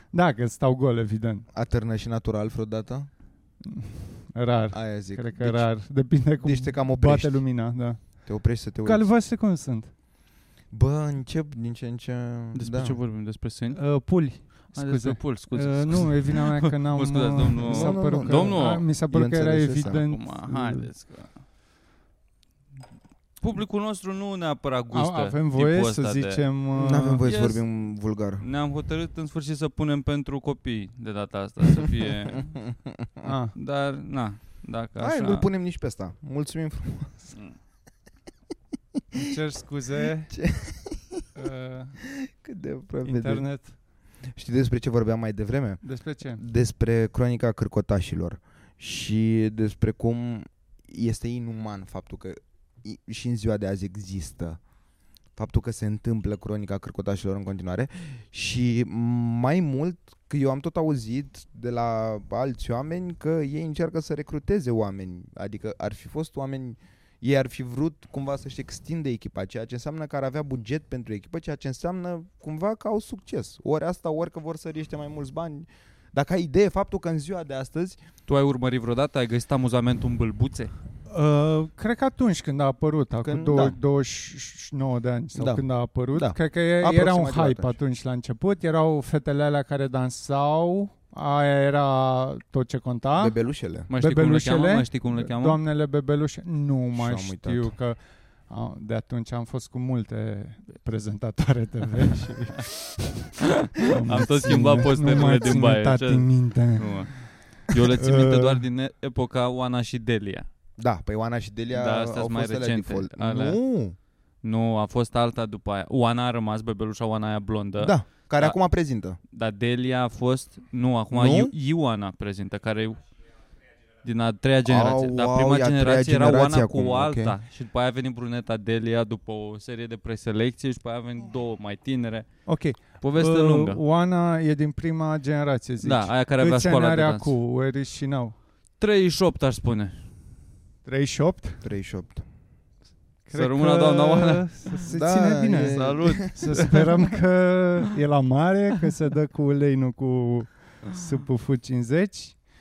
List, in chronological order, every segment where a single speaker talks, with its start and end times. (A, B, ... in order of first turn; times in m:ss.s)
0:00.1-0:01.5 A
0:01.5-0:03.1 B
0:03.6-0:09.9 A
0:04.7-0:05.7 B
0:06.4-0:07.5 B
0:08.2-0:09.1 B
0:10.7-0:13.0 B
0:12.6-0:13.8 C
0:13.7-0:20.9 A
0:14.7-0:18.9 C
0:17.6-0:20.0 B
0:19.9-0:21.4 C
0:23.4-0:26.4 C
0:24.9-0:27.2 A
0:26.8-0:28.4 B
0:27.2-0:27.6 C
0:28.4-0:32.6 C
0:32.3-0:33.3 B
0:33.2-0:33.6 A
0:33.6-0:35.5 C
0:35.0-0:37.4 B
0:39.2-0:40.4 A
0:40.3-0:41.3 B
0:41.4-0:42.0 A
0:42.1-0:43.5 B
0:43.0-0:43.8 A
0:44.3-0:54.6 B
0:45.8-0:46.4 A
0:55.4-1:18.0 B
1:18.3-1:20.7 C
1:21.1-1:33.4 A
1:23.2-1:23.8 B
1:25.4-1:27.8 B
1:33.2-1:33.9 B
1:33.9-1:35.6 C
1:33.9-1:43.2 A
1:36.9-1:37.7 B
1:43.8-1:47.4 A
1:43.8-1:50.5 C
1:47.9-1:48.6 A
1:50.8-1:54.0 B
1:51.7-1:53.6 C
1:54.4-1:58.6 C
1:57.8-1:59.2 B
1:59.3-2:03.0 C
2:01.1-2:01.5 B
2:04.0-2:12.3 C
2:04.6-2:07.4 B
2:12.5-2:18.4 A
2:12.8-2:13.8 C
2:15.8-2:17.4 C
2:18.8-2:20.1 C
2:20.8-2:21.6 A
2:21.6-2:22.2 B
2:23.3-2:32.4 A
2:23.3-2:24.7 C
2:24.9-2:26.3 B
2:25.6-2:27.0 C